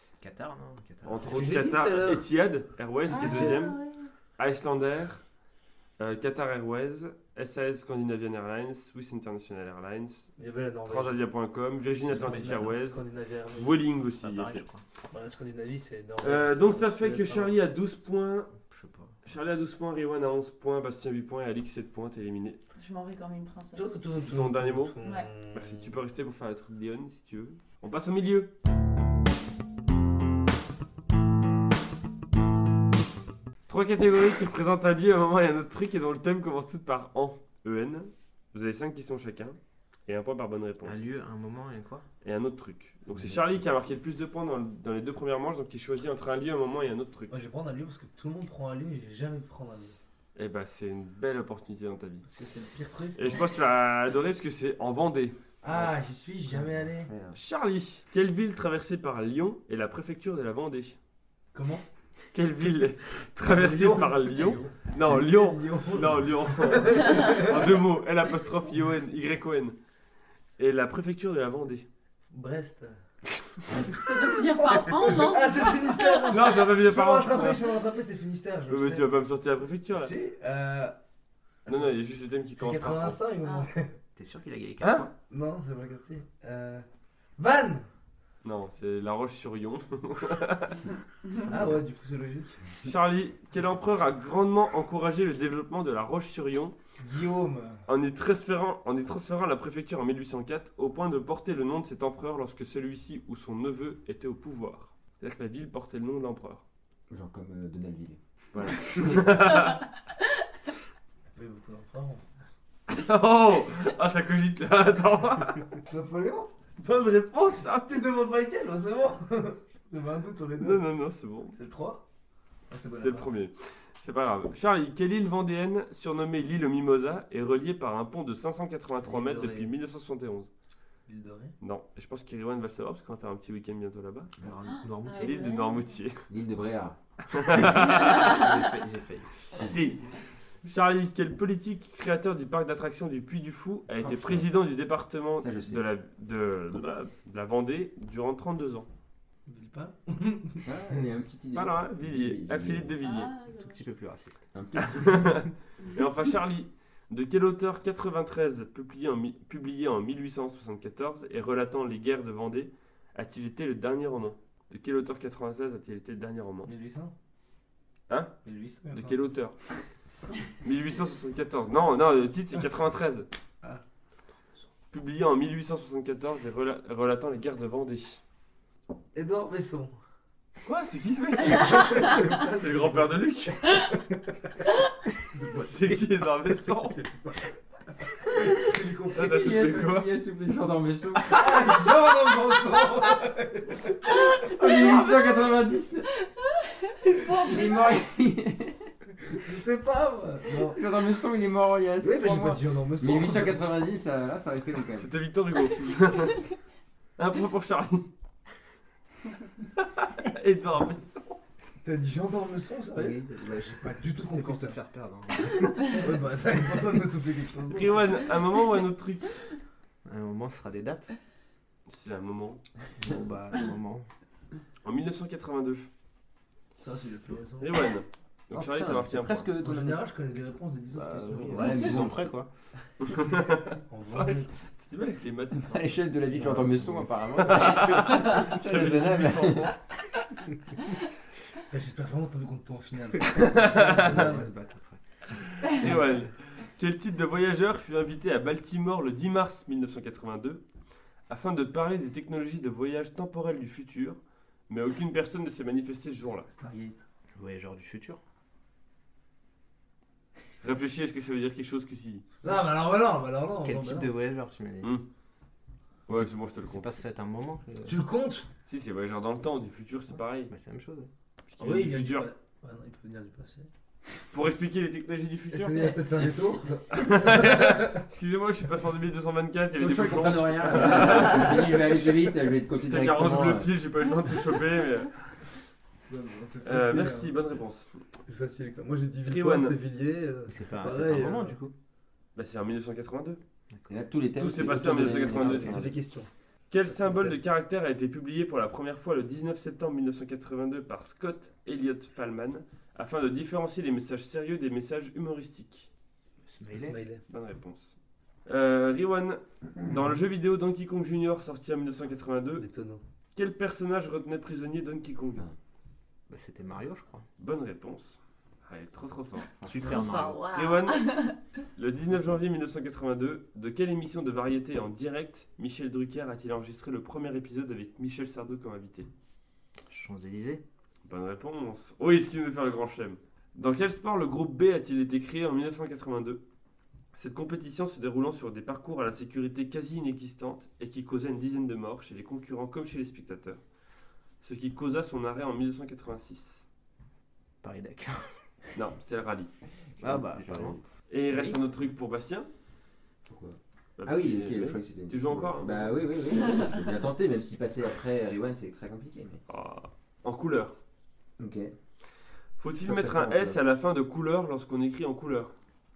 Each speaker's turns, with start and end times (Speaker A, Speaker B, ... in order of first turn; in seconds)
Speaker A: 0.2-1.4, 12.1-12.6, 14.2-14.8, 18.6-19.1, 40.8-42.0, 64.3-64.7, 84.1-85.1, 134.4-135.5, 137.9-139.5, 153.5-154.5, 212.9-216.0, 220.0-221.1, 223.0-224.1, 230.9-232.5, 236.3-237.1, 243.6-246.3, 257.4-258.2, 263.6-264.9, 266.1-268.0, 270.5-271.1, 290.5-291.7, 293.7-294.0, 306.4-307.0, 316.3-317.2, 319.6-320.4, 329.9-330.6, 347.6-348.5, 350.0-351.6
Speaker B: 1.0-3.8, 4.4-5.2, 6.0-10.3, 10.8-13.0, 13.5-14.6, 16.2-18.5, 19.2-22.6, 24.2-24.9, 25.5-28.5, 33.7-41.0, 42.2-47.4, 50.3-52.2, 53.2-55.4, 57.3-61.0, 62.3-69.8, 70.6-71.8, 76.3-77.7, 78.7-80.1, 81.7-83.2, 84.8-85.1, 88.4-90.9, 92.8-96.7, 97.9-106.6, 108.5-109.8, 112.9-115.7, 116.8-118.0, 120.6-121.5, 122.9-130.5, 131.6-134.3, 135.2-136.2, 137.3-138.4, 139.5-148.9, 151.5-153.3, 154.8-166.7, 168.1-168.3, 168.9-169.5, 170.6-173.3, 174.9-178.2, 180.6-183.9, 185.4-187.3, 189.1-190.1, 205.0-206.4, 207.2-208.1, 209.8-211.4, 217.7-219.5, 221.9-222.6, 224.8-225.9, 227.6-229.5, 231.7-232.2, 233.0-236.0, 237.4-239.8, 243.3-244.3, 245.7-250.6, 251.3-256.5, 260.6-262.2, 266.1-266.9, 268.7-270.5, 271.5-272.3, 274.3-276.2, 276.9-285.1, 286.6-287.9, 289.2-289.7, 292.4-293.4, 294.4-295.9, 296.7-305.9, 307.3-307.9, 308.4-312.6, 313.3-315.4, 317.4-319.5, 320.5-329.1, 331.0-336.4, 337.1-343.6, 344.4-346.6, 348.7-349.5, 350.3-352.5, 354.0-356.0, 359.5-360.7, 362.6-365.5
Speaker C: 1.2-2.3, 3.0-3.6, 10.4-11.2, 12.1-13.8, 15.1-17.6, 23.7-25.9, 47.3-50.0, 52.2-53.4, 55.6-57.1, 61.5-61.8, 63.4-64.3, 65.0-67.8, 72.3-73.0, 75.0-79.1, 79.9-81.0, 81.7-82.0, 82.5-83.9, 85.3-86.8, 87.4-87.9, 91.3-92.6, 97.0-97.8, 111.3-112.4, 115.8-116.5, 117.9-120.8, 121.5-122.0, 122.7-123.4, 129.0-129.7, 131.1-131.5, 149.4-150.7, 166.6-167.1, 168.4-169.3, 179.1-179.9, 181.5-183.1, 188.2-189.8, 191.3-193.9, 199.4-200.8, 202.0-203.6, 211.8-214.8, 215.8-218.1, 226.8-227.7, 229.6-231.8, 233.8-234.5, 241.7-244.5, 256.5-257.0, 262.4-264.1, 267.8-268.5, 271.6-273.7, 275.5-278.0, 286.1-287.4, 288.2-291.6, 295.2-296.3, 296.9-297.4, 306.7-307.2, 312.6-313.0
Speaker D: 3.1-4.1, 22.8-24.0, 25.0-25.3, 73.8-76.5, 83.4-83.7, 134.8-135.9, 153.0-153.8, 194.7-195.3, 197.0-197.9, 319.8-321.4
Speaker E: 43.1-43.4, 56.5-57.4, 107.1-108.2, 136.3-137.0, 144.0-144.5, 145.4-145.8, 150.6-152.9, 154.5-155.4, 189.2-191.8, 194.2-196.1, 197.2-198.9, 200.5-205.1, 228.5-230.0, 231.5-232.4, 235.6-239.7, 279.7-283.7, 293.9-295.9, 319.6-320.0, 350.0-350.7, 353.2-359.4, 361.4-361.7, 362.8-363.6